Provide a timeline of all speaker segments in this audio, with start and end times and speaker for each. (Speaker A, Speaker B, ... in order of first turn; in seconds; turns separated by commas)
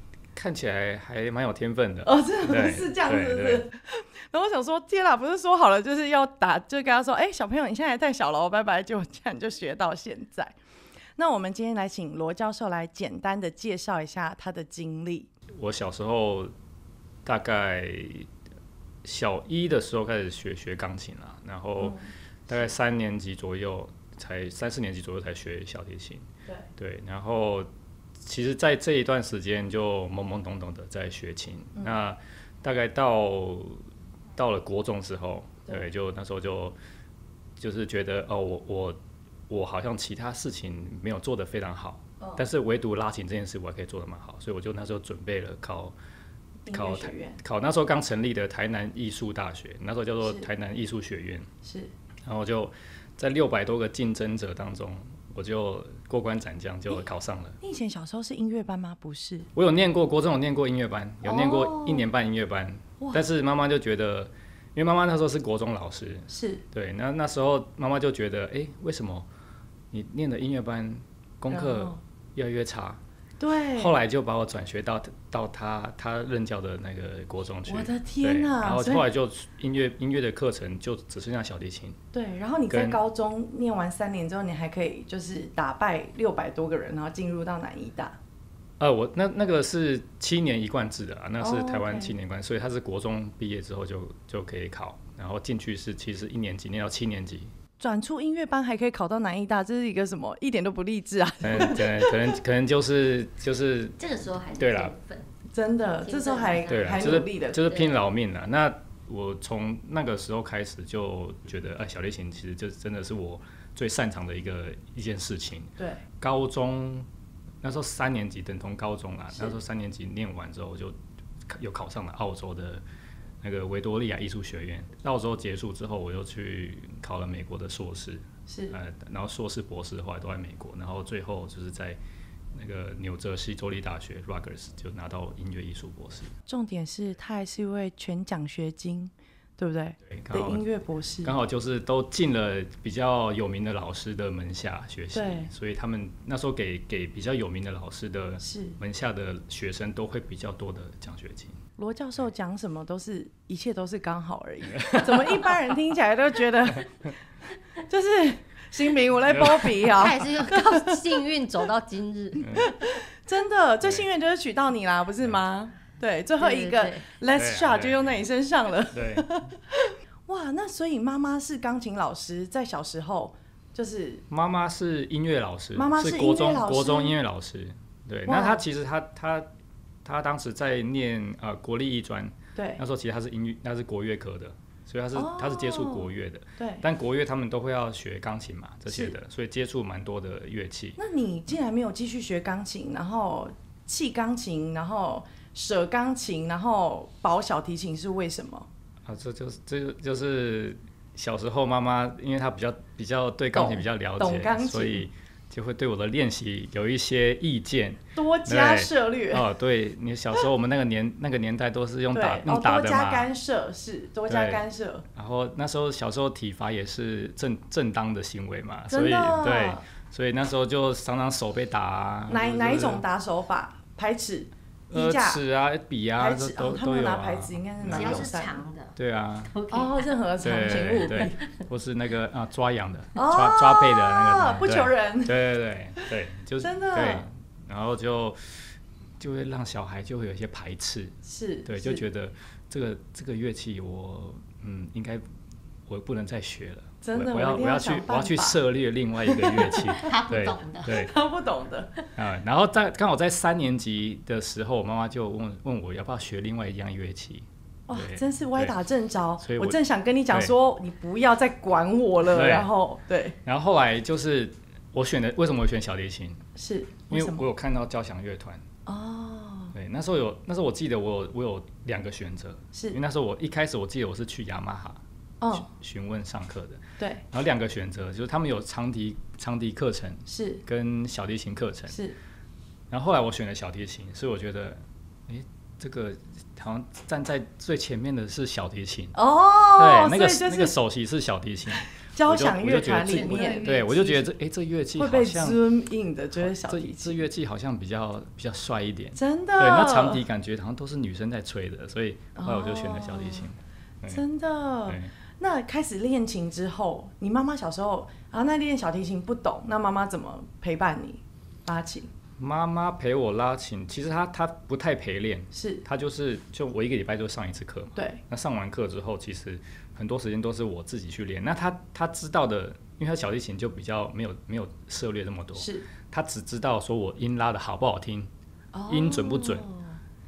Speaker A: 0.3-3.7, Speaker B: 2.0-10.6, Speaker B: 11.2-15.3, Speaker A: 15.5-16.5, Speaker A: 17.2-18.3, Speaker A: 19.0-26.3, Speaker B: 21.8-22.1, Speaker A: 26.8-27.7, Speaker A: 28.2-33.8, Speaker A: 34.4-36.8, Speaker A: 37.6-39.0, Speaker A: 39.5-45.9, Speaker B: 46.7-47.4, Speaker A: 46.7-51.5, Speaker B: 51.6-51.9, Speaker A: 52.2-57.6, Speaker B: 57.6-59.5, Speaker A: 59.5-69.3, Speaker B: 61.2-62.0, Speaker B: 66.3-66.6, Speaker A: 69.9-73.0, Speaker B: 71.5-72.0, Speaker B: 73.4-73.9, Speaker A: 73.8-82.0, Speaker B: 77.7-79.0, Speaker B: 82.1-88.2, Speaker A: 82.7-83.0, Speaker A: 88.8-97.5, Speaker B: 91.4-92.1, Speaker B: 97.8-102.2, Speaker A: 101.4-104.0, Speaker C: 104.0-105.3, Speaker A: 104.6-105.0, Speaker B: 105.5-107.8, Speaker C: 106.0-107.8, Speaker A: 106.7-117.1, Speaker A: 117.6-121.0, Speaker A: 121.5-122.8, Speaker A: 123.4-132.0, Speaker B: 128.5-128.8, Speaker A: 132.5-136.3, Speaker B: 136.5-141.3, Speaker A: 140.1-140.7, Speaker A: 141.2-151.6, Speaker B: 145.1-145.5, Speaker B: 148.4-148.8, Speaker B: 151.8-156.9, Speaker A: 154.7-155.7, Speaker A: 156.7-157.1, Speaker B: 157.9-160.9, Speaker A: 159.2-159.8, Speaker C: 159.8-162.7, Speaker B: 162.4-174.2, Speaker A: 162.4-162.7, Speaker C: 166.4-167.1, Speaker A: 167.3-168.2, Speaker A: 168.9-169.3, Speaker A: 174.3-179.5, Speaker B: 175.8-177.1, Speaker B: 178.3-178.6, Speaker A: 180.0-191.0, Speaker B: 182.6-182.8, Speaker B: 185.2-186.8, Speaker B: 191.0-198.7, Speaker A: 199.1-213.3, Speaker B: 203.5-205.0, Speaker B: 208.2-209.4, Speaker B: 212.1-215.0, Speaker A: 214.3-214.6, Speaker A: 215.2-223.0, Speaker B: 218.9-219.8, Speaker B: 222.3-225.4, Speaker A: 224.9-228.3, Speaker B: 226.2-228.6, Speaker C: 227.9-229.0, Speaker A: 229.0-229.5, Speaker C: 229.5-231.6, Speaker B: 229.7-231.4, Speaker A: 230.4-238.6, Speaker B: 233.2-235.3, Speaker B: 236.6-237.3, Speaker A: 239.2-245.2, Speaker B: 241.2-242.0, Speaker A: 245.9-251.1, Speaker B: 247.0-248.6, Speaker B: 249.2-250.1, Speaker C: 249.9-251.1, Speaker B: 250.9-251.9, Speaker A: 252.2-258.7, Speaker B: 257.9-263.4, Speaker A: 259.4-259.8, Speaker A: 262.2-262.7, Speaker A: 263.4-266.4, Speaker B: 266.6-267.5, Speaker A: 267.1-268.6, Speaker B: 268.9-269.8, Speaker A: 269.7-275.0, Speaker B: 272.7-273.0, Speaker B: 275.4-275.7, Speaker A: 275.5-282.0, Speaker B: 280.3-280.6, Speaker B: 281.9-282.2, Speaker A: 282.9-289.1, Speaker B: 289.1-290.7, Speaker A: 289.8-295.6, Speaker B: 291.8-294.2, Speaker C: 293.1-293.9, Speaker B: 295.0-297.2, Speaker A: 296.4-304.2, Speaker B: 299.1-300.2, Speaker B: 302.4-303.5, Speaker B: 304.1-312.1, Speaker A: 304.9-305.1, Speaker A: 312.4-328.3, Speaker B: 315.5-315.8, Speaker B: 318.0-318.2, Speaker B: 325.6-325.9, Speaker B: 328.7-330.0, Speaker A: 328.9-329.6